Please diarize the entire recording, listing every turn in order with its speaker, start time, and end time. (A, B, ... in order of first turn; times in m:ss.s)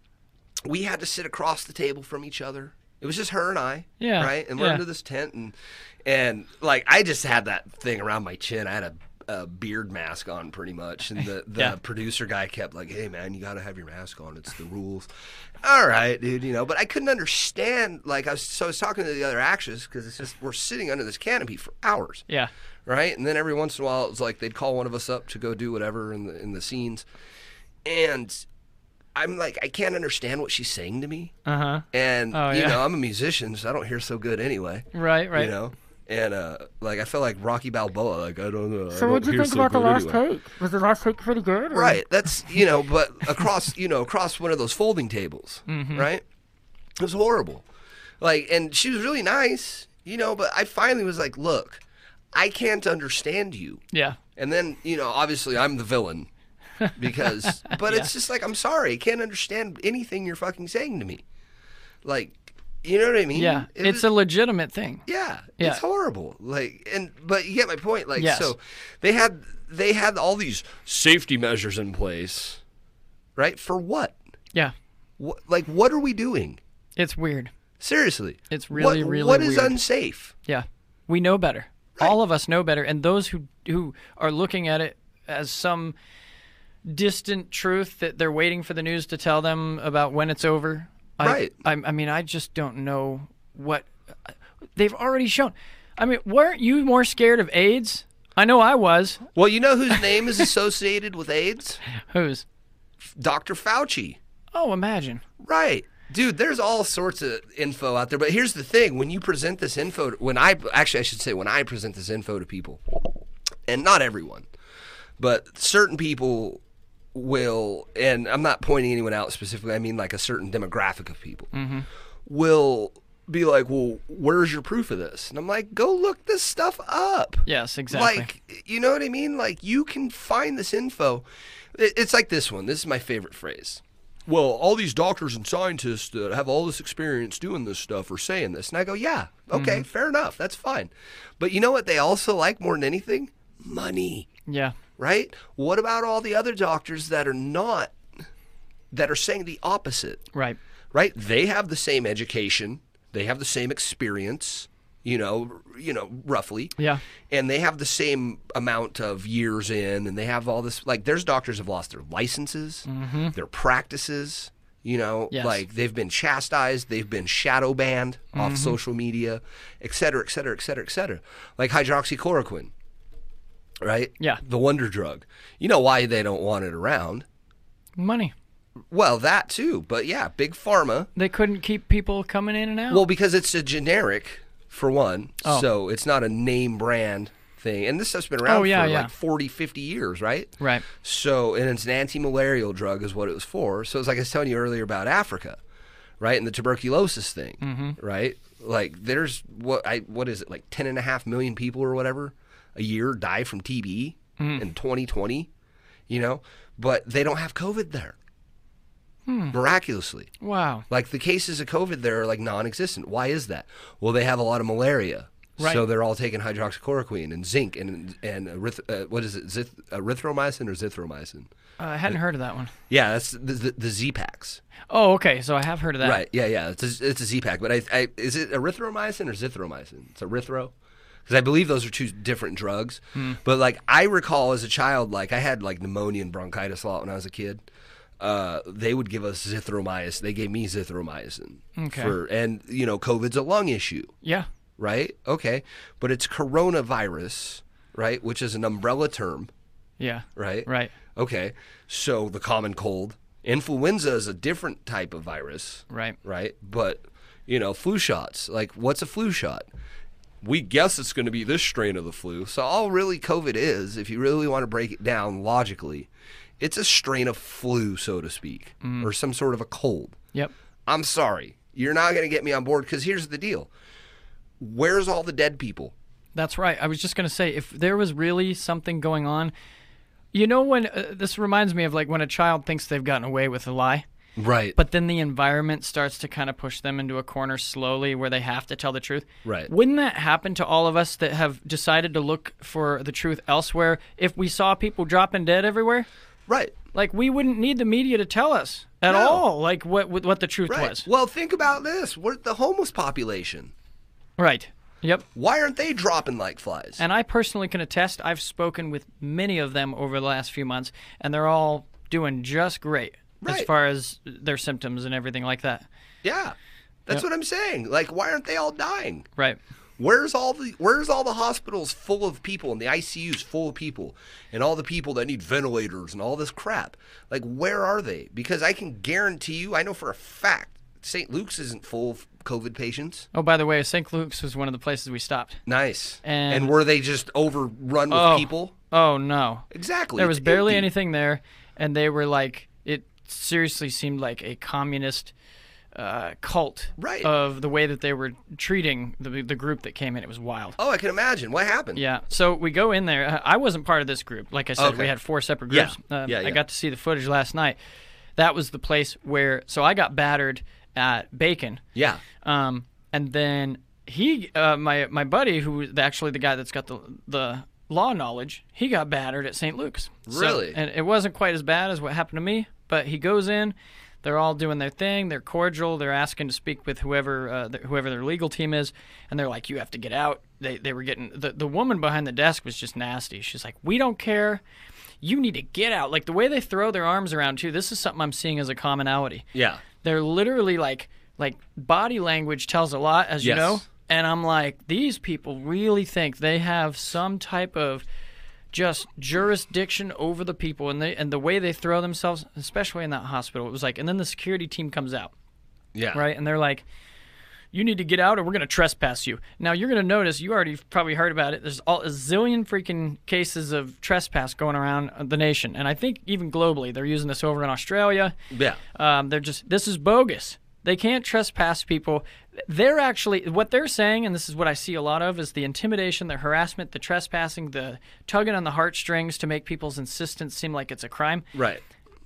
0:00.6-0:05.5 A
0:04.0-0:04.8 B
0:06.0-0:15.1 A
0:15.6-0:22.2 A
0:22.9-0:27.1 A
0:27.8-0:28.5 A
0:29.2-0:31.3 A
0:31.4-0:32.8 B
0:31.9-0:40.2 A
0:34.9-0:35.5 B
0:38.9-0:42.0 C
0:41.7-0:46.2 A
0:45.7-0:46.1 B
0:47.0-0:47.6 A
0:48.2-0:51.8 A
0:52.3-0:53.8 A
0:53.9-0:54.2 B
0:54.4-0:56.3 A
0:57.0-1:01.2 A
0:57.6-0:58.1 B
1:02.0-1:04.1 A
1:03.3-1:05.0 B
1:05.1-1:12.6 A
1:08.2-1:08.5 B
1:13.4-1:14.2 A
1:15.2-1:16.6 A
1:17.0-1:17.5 B
1:17.8-1:20.3 A
1:18.5-1:19.8 B
1:20.5-1:26.0 B
1:26.9-1:39.3 B
1:31.2-1:31.5 A
1:39.4-1:41.8 A
1:41.9-1:42.4 B
1:43.2-1:44.2 A
1:44.5-1:45.2 B
1:45.4-1:53.0 A
1:53.7-1:54.5 A
1:55.2-1:56.6 A
1:57.1-2:01.5 A
2:01.5-2:01.9 B
2:02.3-2:24.3 A
2:07.5-2:08.3 B
2:19.5-2:19.9 B
2:24.5-2:24.8 B
2:25.0-2:28.0 A
2:28.9-2:30.3 A
2:30.9-2:36.8 A
2:37.3-2:52.7 A
2:42.9-2:43.4 B
2:45.3-2:45.6 B
2:48.3-2:48.8 B
2:53.8-2:57.3 A
2:58.0-2:58.3 B
2:58.9-3:01.1 A
3:01.2-3:03.0 B
3:02.9-3:15.6 A
3:08.4-3:09.1 B
3:10.6-3:10.9 B
3:16.2-3:25.5 A
3:17.6-3:18.0 B
3:24.4-3:24.6 B
3:26.1-3:28.2 A
3:29.3-3:29.6 B
3:29.5-3:30.3 A
3:30.4-3:30.9 B
3:30.9-3:41.5 A
3:41.8-3:42.7 B
3:42.9-3:44.6 A
3:44.9-3:46.2 B
3:46.0-3:50.7 A
3:51.3-3:57.6 A
3:58.2-4:04.1 A
4:01.8-4:02.2 B
4:04.8-4:09.5 A
4:10.0-4:10.9 B
4:10.4-4:19.7 A
4:15.9-4:16.2 B
4:20.4-4:26.1 A
4:26.6-4:30.2 A
4:28.8-4:29.1 B
4:30.9-4:33.7 A
4:34.6-4:35.9 A
4:36.4-4:39.5 B
4:40.3-4:44.0 B
4:44.4-4:44.8 A
4:44.8-4:56.1 B
4:49.4-4:49.7 A
4:56.5-4:56.8 A
4:56.9-5:01.1 B
4:59.1-4:59.4 A
5:00.7-5:03.7 A
5:04.4-5:05.2 B
5:05.3-5:07.0 A
5:07.0-5:15.9 B
5:13.4-5:13.7 A
5:16.2-5:16.6 A
5:17.1-5:19.3 A
5:20.0-5:33.3 A
5:33.3-5:35.6 B
5:35.7-5:38.7 A
5:36.2-5:36.7 B
5:38.1-5:45.3 B
5:39.7-5:40.9 A
5:46.0-5:50.8 B
5:47.0-5:47.3 A
5:50.8-5:52.0 A
5:52.0-5:57.8 B
5:54.8-5:55.1 A
5:55.7-5:56.6 A
5:58.4-6:01.8 B
6:02.0-6:02.2 A
6:02.4-6:24.6 B
6:10.3-6:10.8 A
6:25.2-6:29.5 B
6:29.5-6:29.8 A
6:30.0-6:38.0 B
6:33.4-6:33.8 A
6:38.7-6:45.3 B
6:46.0-6:46.2 A
6:46.1-6:46.8 B
6:47.7-6:58.3 B
6:58.5-6:58.8 A
6:58.9-7:11.5 B
7:11.5-7:11.8 A